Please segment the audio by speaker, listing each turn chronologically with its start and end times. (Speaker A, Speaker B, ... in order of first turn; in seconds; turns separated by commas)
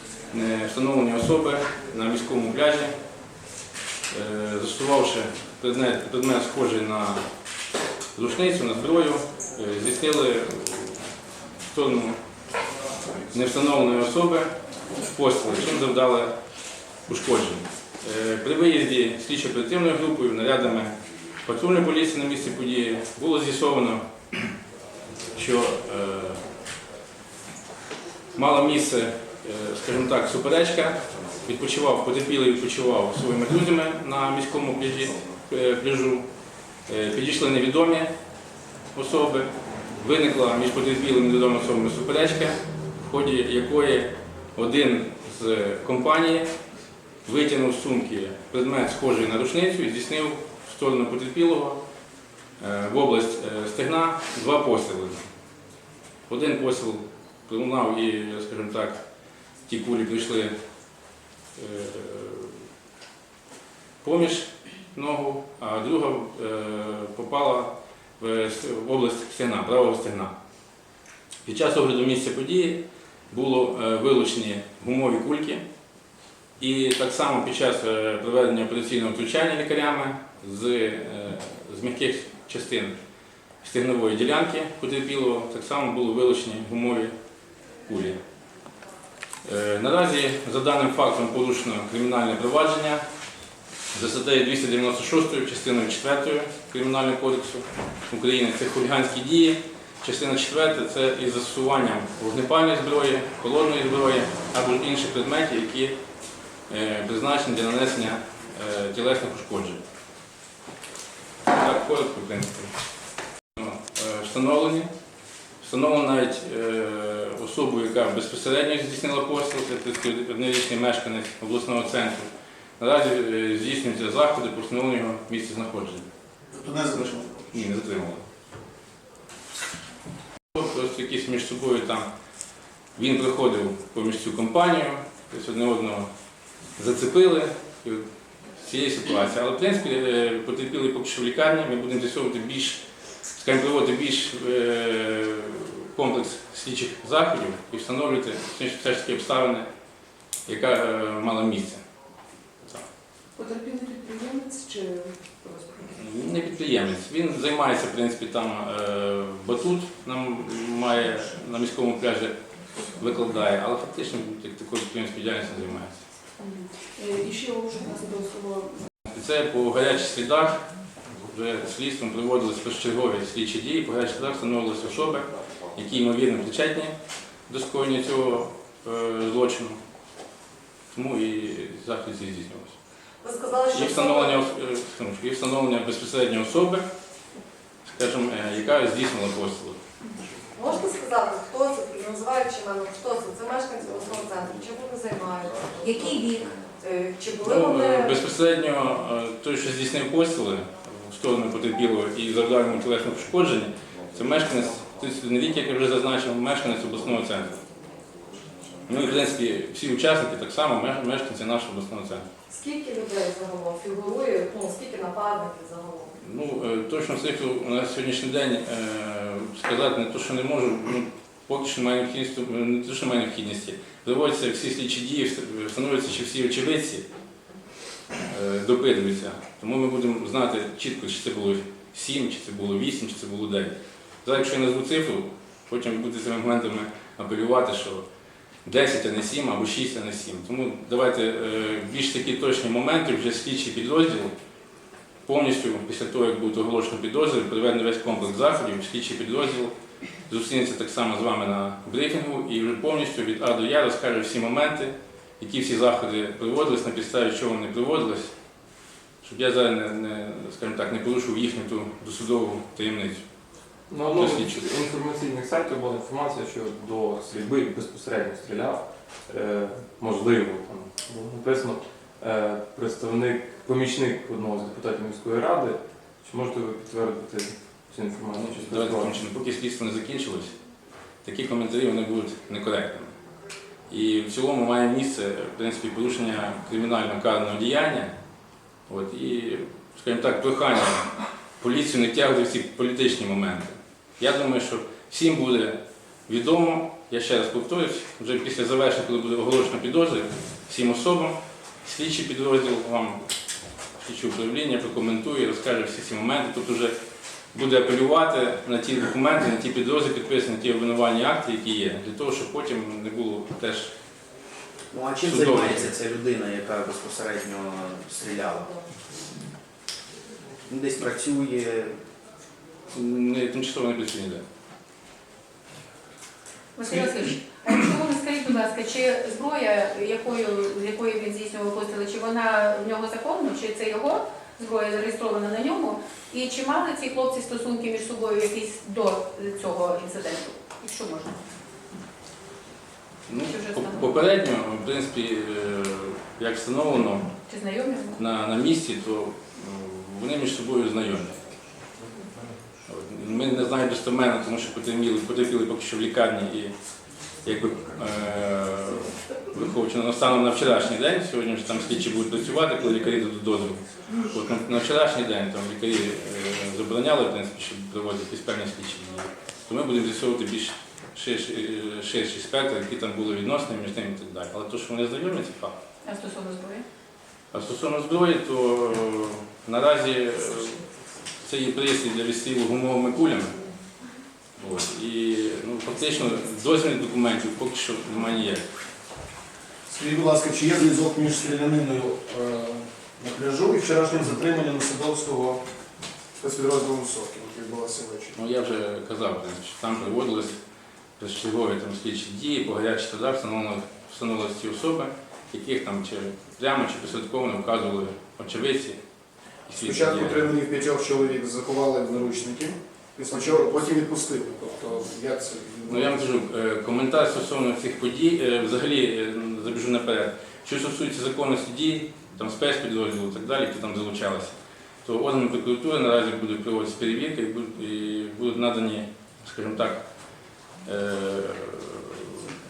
Speaker A: 0.3-2.9, Speaker A: 4.1-7.2, Speaker A: 8.2-11.0, Speaker A: 11.7-12.2, Speaker A: 13.3-16.4, Speaker A: 17.1-24.0, Speaker A: 25.4-26.4, Speaker A: 28.4-36.3, Speaker A: 36.9-38.1, Speaker A: 38.9-46.5, Speaker A: 47.2-51.8, Speaker A: 52.6-55.3, Speaker A: 56.3-59.0, Speaker A: 59.7-60.5, Speaker A: 61.6-62.6, Speaker A: 64.0-70.3, Speaker A: 71.5-75.6, Speaker A: 76.6-83.0, Speaker A: 83.6-87.2, Speaker A: 87.9-88.2, Speaker A: 89.5-93.0, Speaker A: 93.9-106.0, Speaker A: 106.7-109.8, Speaker A: 111.5-112.7, Speaker A: 113.5-114.9, Speaker A: 115.6-122.3, Speaker A: 122.8-126.0, Speaker B: 126.6-127.2, Speaker A: 127.5-128.2, Speaker A: 130.5-132.1, Speaker A: 133.0-136.1, Speaker A: 136.8-138.1, Speaker A: 138.6-142.8, Speaker A: 143.3-149.7, Speaker A: 150.5-151.8, Speaker C: 153.4-155.8, Speaker A: 155.8-166.0, Speaker C: 166.4-168.9, Speaker A: 169.1-170.7, Speaker A: 171.3-176.9, Speaker A: 177.5-179.8, Speaker A: 180.9-182.8, Speaker D: 183.2-184.4, Speaker A: 183.7-186.9, Speaker A: 187.8-189.8, Speaker D: 190.6-198.2, Speaker A: 197.4-207.6, Speaker A: 208.9-212.2, Speaker D: 212.5-216.1, Speaker A: 216.2-227.1, Speaker A: 228.3-233.7, Speaker A: 234.2-238.1, Speaker A: 238.7-244.3, Speaker A: 245.3-249.7, Speaker A: 250.3-258.3, Speaker A: 259.2-263.2, Speaker E: 263.9-279.1, Speaker A: 264.0-264.7, Speaker A: 278.4-280.5, Speaker A: 281.2-283.1, Speaker A: 283.9-288.1, Speaker A: 288.9-303.2, Speaker A: 304.0-306.9, Speaker A: 307.5-313.9, Speaker F: 314.9-318.7, Speaker A: 315.2-315.9, Speaker F: 320.7-321.9, Speaker A: 322.9-324.4, Speaker G: 326.8-341.4, Speaker A: 343.3-347.3, Speaker G: 343.5-344.1, Speaker G: 347.5-348.2, Speaker A: 348.2-351.4, Speaker A: 352.9-356.7, Speaker A: 357.4-375.7, Speaker G: 376.0-376.8, Speaker A: 377.5-380.8, Speaker A: 381.4-383.6, Speaker A: 384.6-388.7, Speaker B: 389.9-395.6, Speaker B: 396.4-398.4, Speaker A: 398.4-400.6, Speaker A: 401.2-409.0, Speaker A: 409.7-410.5, Speaker B: 409.8-416.2, Speaker A: 415.9-430.0, Speaker A: 430.9-432.5